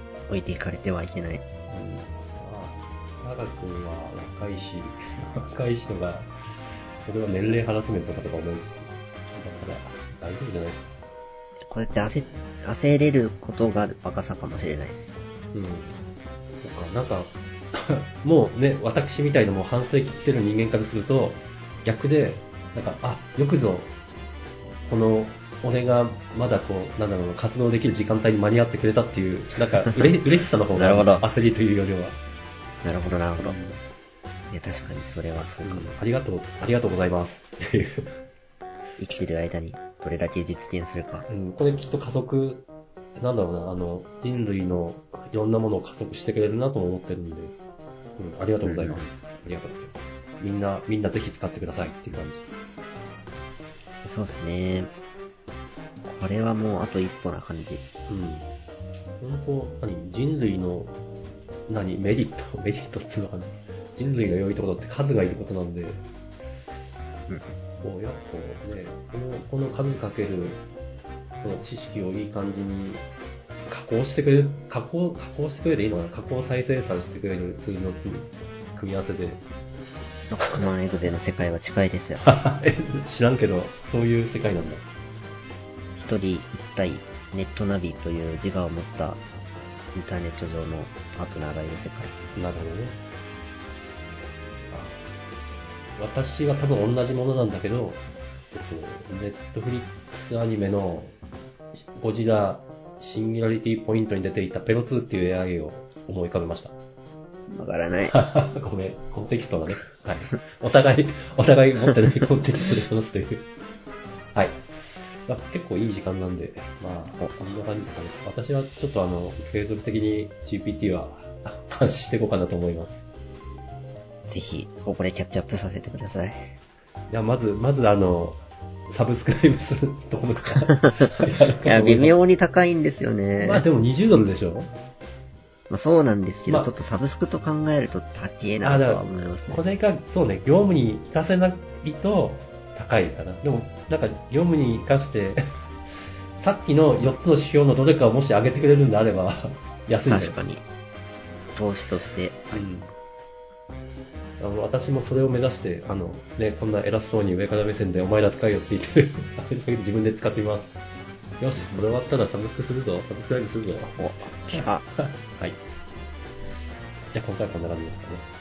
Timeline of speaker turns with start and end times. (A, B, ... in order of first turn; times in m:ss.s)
0:00.3-0:01.4 A
0:01.7-0:06.3 B
0:07.0-0:11.0 B
0:11.6-0:15.2 A
0:15.5-0:16.0 B
0:16.6-0:23.9 B
0:24.9-0:32.2 B
0:30.8-0:31.3 A
0:32.8-0:33.6 A
0:33.4-0:33.8 B
0:34.5-0:35.9 A
0:35.6-0:38.2 B
0:39.0-0:41.3 A
0:41.3-0:47.6 B
0:48.2-0:52.5 B
0:48.6-0:49.1 A
0:54.0-0:54.9 A
0:56.0-0:57.8 A
0:58.1-0:58.5 B
0:59.2-1:00.9 B
1:01.7-1:06.1 B
1:07.3-1:07.6 A
1:07.8-1:10.6 B
1:11.4-1:13.0 B
1:13.7-1:19.4 B
1:20.3-1:22.3 A
1:22.2-1:24.8 B
1:26.0-1:29.2 A
1:29.9-1:32.1 A
1:32.4-1:33.0 B
1:34.7-1:35.0 B
1:36.0-1:41.2 B
1:41.8-1:46.8 B
1:47.5-1:48.2 A
1:48.1-1:53.5 B
1:54.4-1:54.7 B
1:55.3-2:03.0 B
2:04.3-2:06.6 A
2:07.1-2:12.2 B
2:11.6-2:13.7 A
2:13.4-2:14.7 B
2:15.7-2:19.6 A
2:18.6-2:25.4 B
2:26.4-2:30.4 B
2:30.1-2:30.6 A
2:31.6-2:32.6 A
2:32.5-2:32.9 B
2:34.4-2:40.8 B
2:41.4-2:45.6 B
2:41.6-2:42.0 A
2:44.0-2:44.9 A
2:47.1-2:48.3 B